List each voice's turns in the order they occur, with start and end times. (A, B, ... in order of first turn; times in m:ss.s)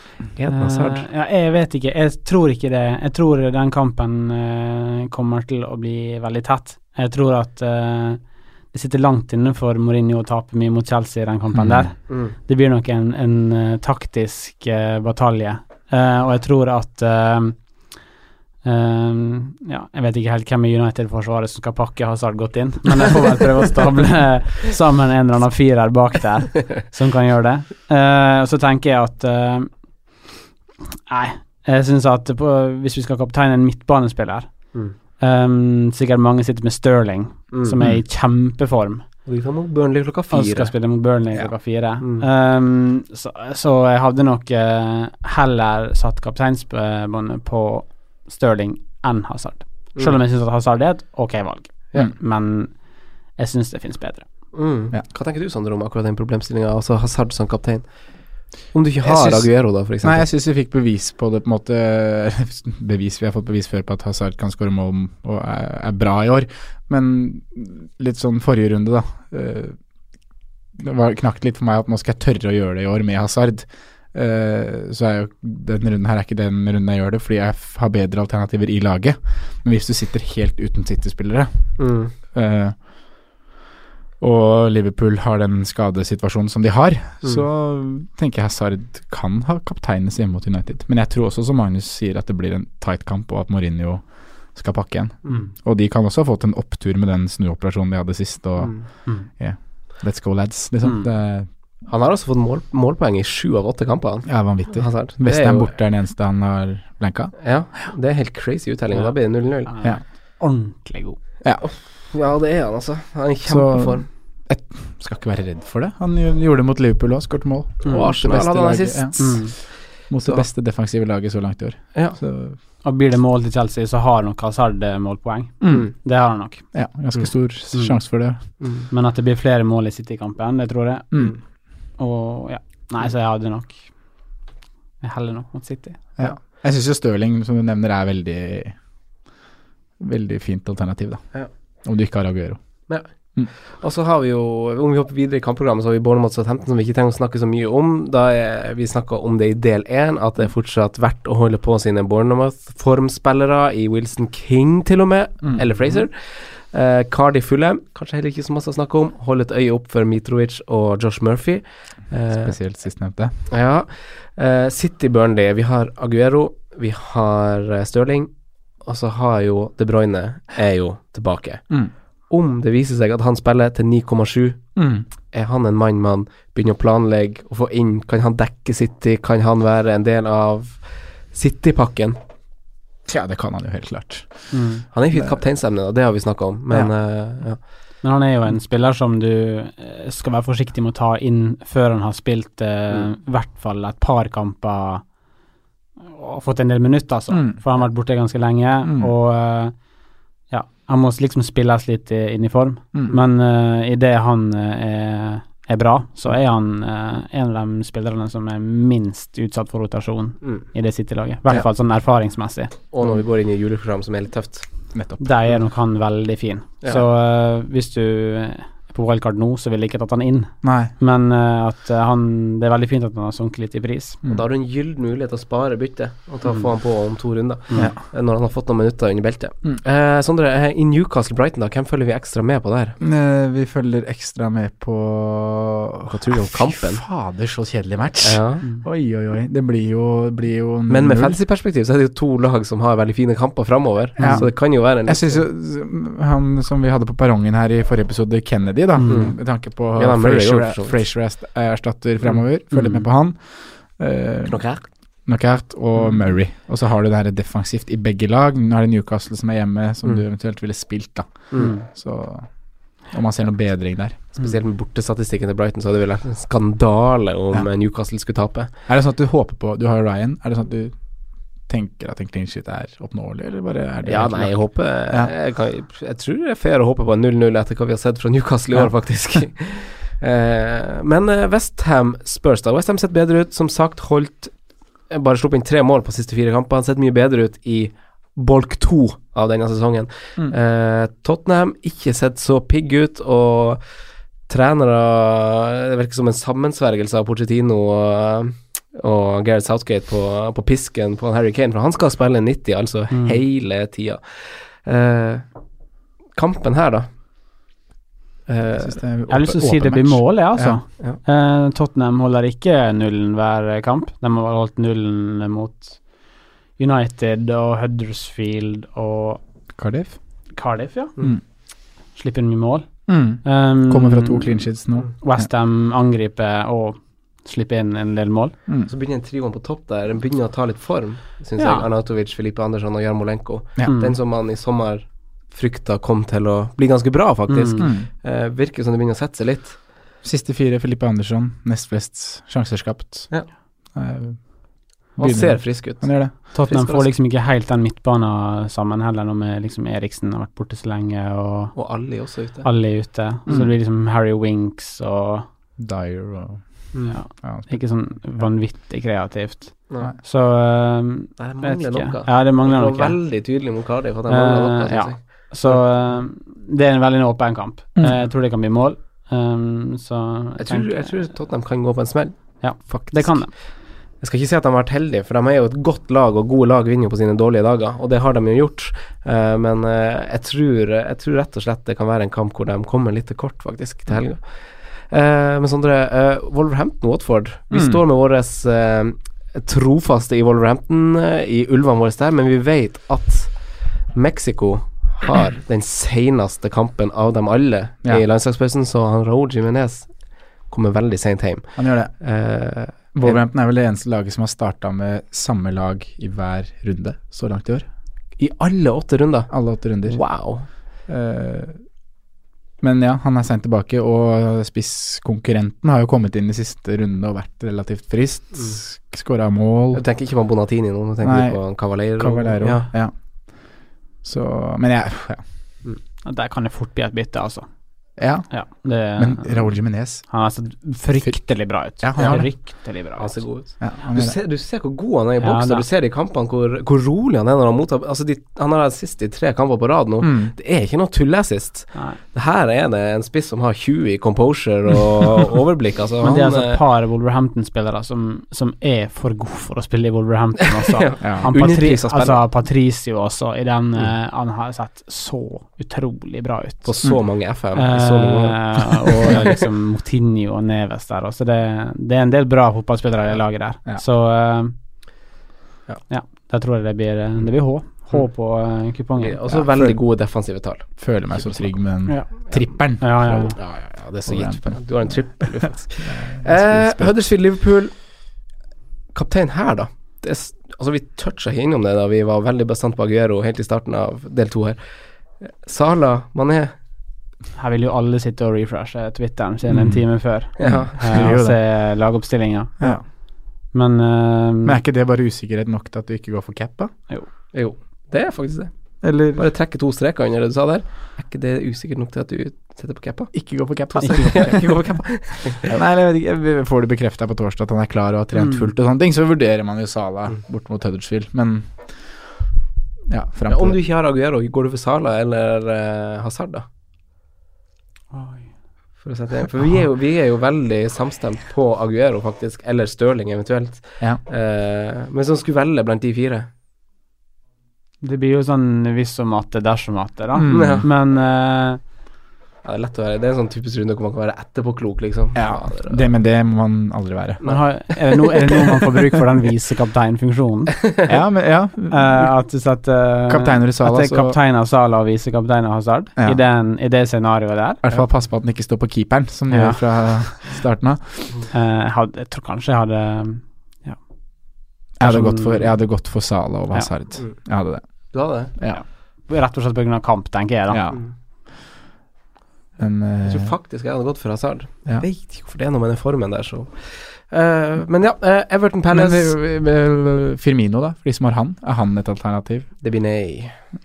0:00.3-0:01.1 A
0:00.5-0:17.6 B
0:11.5-0:11.9 C
0:12.1-0:12.3 A
0:18.6-0:29.7 B
0:31.1-0:34.5 B
0:35.2-0:39.0 B
0:37.5-0:37.8 A
0:39.2-0:40.7 A
0:40.3-0:52.7 B
0:42.0-0:42.3 A
0:53.4-0:54.3 B
0:54.5-0:57.8 A
0:58.7-1:00.3 A
0:59.0-1:09.7 C
1:10.8-1:21.7 C
1:21.8-1:22.1 A
1:22.3-1:22.9 C
1:24.2-1:41.5 C
1:35.2-1:35.5 A
1:38.6-1:38.9 A
1:41.9-1:45.7 A
1:44.2-1:47.4 C
1:47.4-1:49.7 A
1:49.6-1:51.2 B
1:51.6-1:54.0 A
1:53.5-2:02.6 C
1:57.8-1:58.1 B
1:57.9-1:59.6 A
1:59.2-1:59.5 B
2:00.2-2:00.5 A
2:02.8-2:06.6 B
2:05.6-2:06.0 C
2:06.7-2:08.4 C
2:08.6-2:08.9 A
2:08.9-2:11.1 B
2:11.1-2:11.4 C
2:12.0-2:13.8 B
2:15.0-2:16.0 B
2:16.2-2:18.8 C
2:20.0-2:21.2 C
2:21.8-2:22.6 C
2:23.8-2:42.5 A
2:35.4-2:36.0 C
2:42.3-2:43.3 C
2:43.5-2:48.3 A
2:48.8-2:51.7 A
2:52.3-2:54.6 A
2:54.8-2:55.1 C
2:55.3-3:00.8 A
3:01.3-3:02.2 A
3:03.1-3:04.6 C
3:04.5-3:04.8 B
3:04.9-3:07.6 A
3:08.0-3:15.0 B
3:16.1-3:19.7 B
3:17.3-3:17.6 C
3:18.8-3:19.1 C
3:20.5-3:32.7 B
3:22.9-3:23.2 C
3:32.9-3:34.6 A
3:34.9-3:35.3 C
3:35.2-3:44.2 B
3:40.6-3:40.9 C
3:44.2-3:53.0 A
3:53.0-4:01.4 C
3:56.1-3:57.0 A
3:58.2-3:58.6 A
4:00.9-4:05.4 A
4:04.2-4:14.6 C
4:04.2-4:04.4 B
4:09.0-4:09.3 B
4:09.1-4:09.4 A
4:10.0-4:11.0 A
4:14.5-4:14.8 A
4:15.2-4:24.2 C
4:21.6-4:21.8 B
4:24.4-4:28.7 A
4:28.9-4:30.9 C
4:31.7-4:35.3 C
4:34.0-4:44.5 A
4:45.1-4:53.8 A
4:54.5-5:04.2 A
5:03.1-5:03.4 B
5:04.8-5:05.4 A
5:06.4-5:07.1 A
5:08.5-5:09.0 A
5:08.8-5:10.8 C
5:09.3-5:16.0 B
5:16.8-5:19.4 B
5:19.8-5:20.2 C
5:20.5-5:21.1 B
5:22.1-5:22.9 B
5:23.1-5:25.5 C
5:23.4-5:24.6 B
5:25.2-5:28.5 B
5:28.9-5:39.8 A
5:31.6-5:31.9 B
5:33.8-5:34.2 B
5:37.5-5:37.9 B
5:37.8-5:38.1 C
5:40.2-5:43.3 C
5:43.9-5:44.4 C
5:45.2-5:46.3 C
5:45.2-5:47.1 A
5:46.5-5:52.0 B
5:51.7-5:52.7 A
5:52.6-5:55.4 B
5:55.8-5:56.9 C
5:56.9-5:57.2 A
5:57.1-6:03.2 B
5:57.4-5:58.5 C
6:01.4-6:05.8 A
6:04.3-6:11.1 B
6:10.6-6:13.5 A
6:12.6-6:13.5 B
6:14.2-6:24.5 A
6:25.1-6:33.5 A
6:27.7-6:28.0 C
6:34.1-6:40.1 A
6:40.7-6:43.4 A
6:41.8-6:42.1 C
6:43.1-6:47.8 C
6:48.4-6:50.6 A
6:49.5-6:50.3 C
6:51.1-6:51.8 C
6:52.8-7:00.0 C
6:59.9-7:02.9 A
7:01.2-7:03.1 C
7:04.2-7:05.4 C
7:06.2-7:07.7 B
7:08.2-7:08.5 C
7:08.5-7:13.4 B
7:09.0-7:10.3 C
7:11.2-7:12.5 C
7:12.2-7:12.4 A
7:13.2-7:26.8 A
7:13.8-7:14.4 C
7:15.4-7:15.8 B
7:20.2-7:20.5 C
7:21.9-7:22.2 B
7:26.2-7:37.0 B
7:30.9-7:32.5 A
7:31.2-7:31.5 C
7:36.8-7:39.5 A
7:37.7-7:44.7 B
7:46.1-7:49.6 B
7:49.2-7:51.8 A
7:49.6-7:50.0 C
7:51.0-7:57.3 C
7:53.0-7:53.6 B
7:53.5-7:57.9 A
7:59.1-8:04.8 A
8:05.4-8:06.7 A
8:07.6-8:13.0 B
8:09.7-8:11.6 C
8:10.6-8:11.1 A
8:13.7-8:14.8 B
8:14.6-8:16.9 C
8:17.5-8:23.3 A
8:19.0-8:19.4 C
8:23.3-8:25.0 C
8:23.9-8:25.7 A
8:25.6-8:32.1 C
8:28.3-8:28.7 B
8:33.1-8:33.8 C
8:33.5-8:36.6 A
8:38.1-8:38.5 B
8:39.0-8:46.5 A
8:48.0-8:51.8 B
8:50.3-8:50.9 C
8:50.5-8:50.9 A
8:52.6-8:56.1 A
8:55.3-8:57.4 C
8:57.4-8:57.6 A
8:57.4-9:00.8 B
9:01.1-9:02.4 C
9:01.9-9:07.8 B
9:03.3-9:04.4 C
9:07.8-9:11.4 C
9:09.5-9:09.8 B
9:11.5-9:14.0 B
9:15.0-9:18.8 C
9:15.0-9:16.0 B
9:18.1-9:18.5 A
9:18.7-9:20.8 B
9:20.7-9:21.0 C
9:22.8-9:23.5 C
9:23.2-9:29.4 A
9:28.9-9:32.7 C
9:32.8-9:33.5 A